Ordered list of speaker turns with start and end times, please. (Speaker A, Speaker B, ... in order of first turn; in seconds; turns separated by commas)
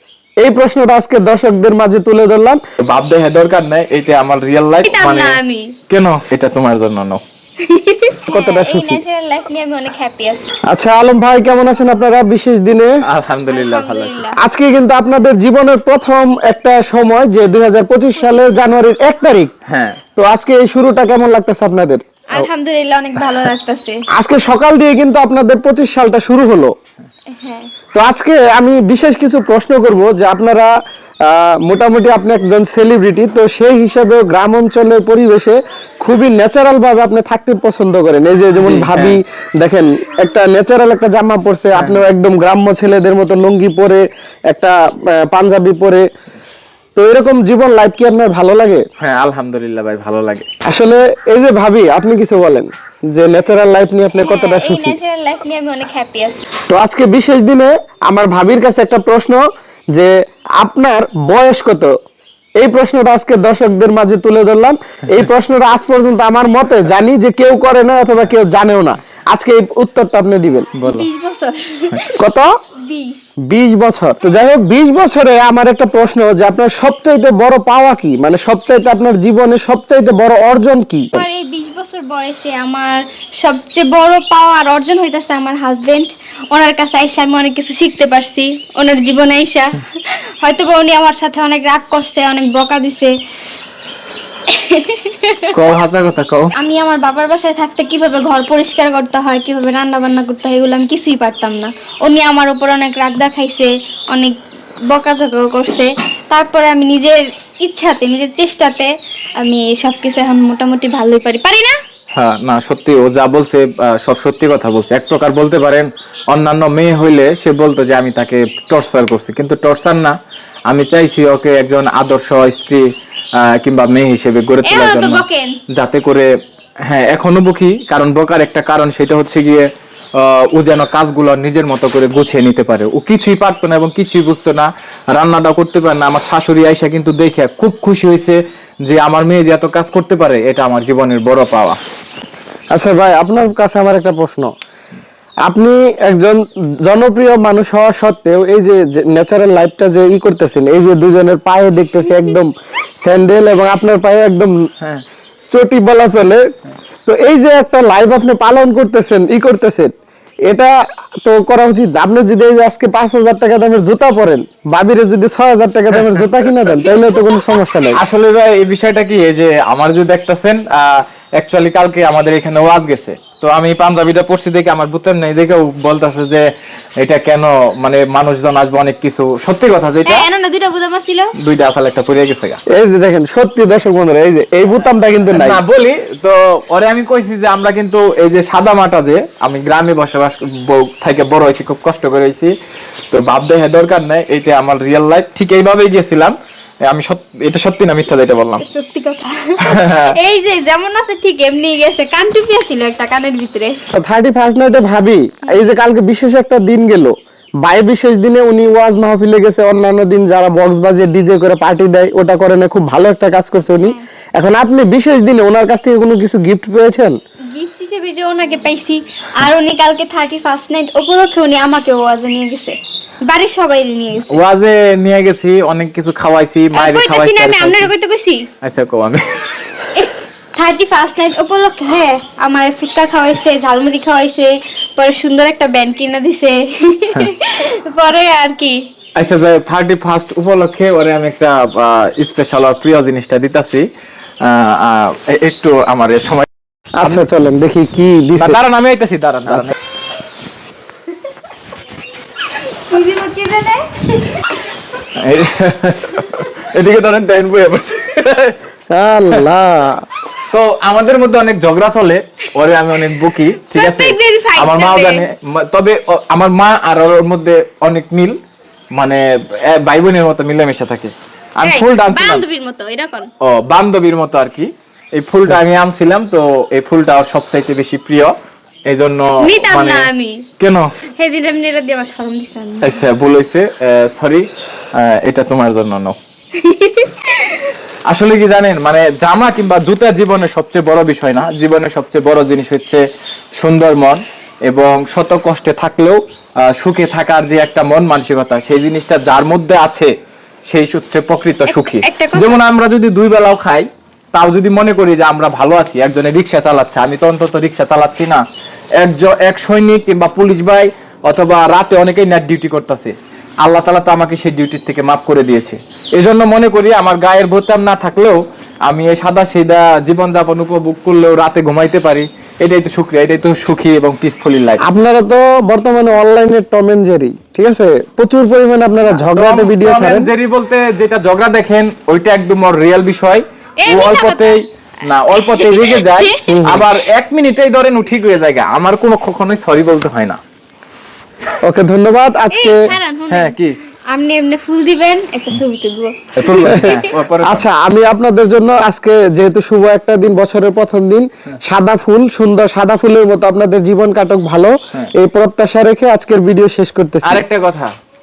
Speaker A: 0.4-2.6, Speaker B: 2.8-7.2, Speaker C: 4.9-5.7, Speaker C: 7.6-10.5, Speaker A: 8.3-9.0, Speaker A: 10.7-12.9, Speaker B: 13.0-14.2, Speaker C: 13.5-14.4, Speaker A: 14.4-19.5, Speaker B: 19.7-20.0, Speaker A: 20.2-22.0, Speaker C: 22.3-24.0, Speaker A: 24.1-26.7, Speaker C: 27.3-27.7, Speaker A: 27.9-30.7, Speaker A: 31.3-46.0, Speaker B: 38.6-39.2, Speaker B: 41.8-42.1, Speaker A: 47.0-48.8, Speaker B: 49.0-50.5, Speaker A: 50.7-55.0, Speaker C: 54.2-56.4, Speaker A: 56.7-59.4, Speaker A: 59.9-61.9, Speaker A: 62.6-70.7, Speaker B: 70.8-71.1, Speaker C: 70.8-72.2, Speaker A: 72.2-72.5, Speaker C: 72.8-73.2, Speaker A: 73.5-81.2, Speaker C: 81.2-93.1, Speaker C: 94.5-95.5, Speaker B: 95.5-96.5, Speaker C: 96.6-104.3, Speaker C: 104.9-108.9, Speaker C: 109.4-111.8, Speaker B: 112.2-120.2, Speaker B: 120.7-122.8, Speaker B: 123.4-125.2, Speaker C: 124.7-125.5, Speaker B: 125.8-126.3, Speaker B: 126.9-141.8, Speaker A: 142.7-144.5, Speaker A: 145.5-154.6, Speaker A: 155.5-156.4, Speaker A: 157.1-159.9, Speaker A: 160.5-168.0, Speaker B: 167.9-176.4, Speaker B: 177.0-180.3, Speaker C: 180.1-181.3, Speaker B: 181.4-182.6, Speaker A: 182.7-185.6, Speaker B: 185.3-192.5, Speaker B: 193.1-196.3, Speaker B: 196.9-198.6, Speaker C: 198.6-203.8, Speaker B: 199.6-200.2, Speaker A: 203.9-217.2, Speaker C: 217.5-222.8, Speaker C: 223.3-224.4, Speaker B: 224.3-227.9, Speaker C: 226.7-228.5, Speaker B: 228.6-229.5, Speaker C: 229.9-238.8, Speaker B: 239.2-243.9, Speaker B: 244.4-246.5, Speaker A: 247.0-248.6, Speaker B: 248.4-249.8, Speaker C: 252.8-254.5, Speaker B: 255.2-258.6, Speaker A: 258.9-260.1, Speaker B: 260.5-268.4, Speaker C: 263.8-265.2, Speaker B: 268.9-272.4, Speaker C: 271.6-273.3, Speaker B: 273.4-278.3, Speaker B: 278.9-280.9, Speaker C: 279.4-280.4, Speaker C: 281.2-283.0, Speaker B: 282.8-286.2, Speaker C: 286.6-287.7, Speaker B: 288.1-293.0, Speaker B: 293.6-296.2, Speaker B: 296.7-300.1, Speaker B: 300.7-308.4, Speaker C: 301.7-302.6, Speaker B: 309.0-324.8, Speaker A: 324.8-330.3, Speaker B: 329.0-340.4, Speaker C: 333.8-334.6, Speaker C: 335.5-336.4, Speaker A: 336.5-336.9, Speaker A: 341.7-342.8, Speaker C: 342.5-343.6, Speaker B: 343.3-343.8, Speaker C: 344.1-346.1, Speaker B: 346.4-347.7, Speaker A: 346.5-346.8, Speaker C: 346.8-347.1, Speaker A: 347.4-357.4, Speaker B: 357.2-357.9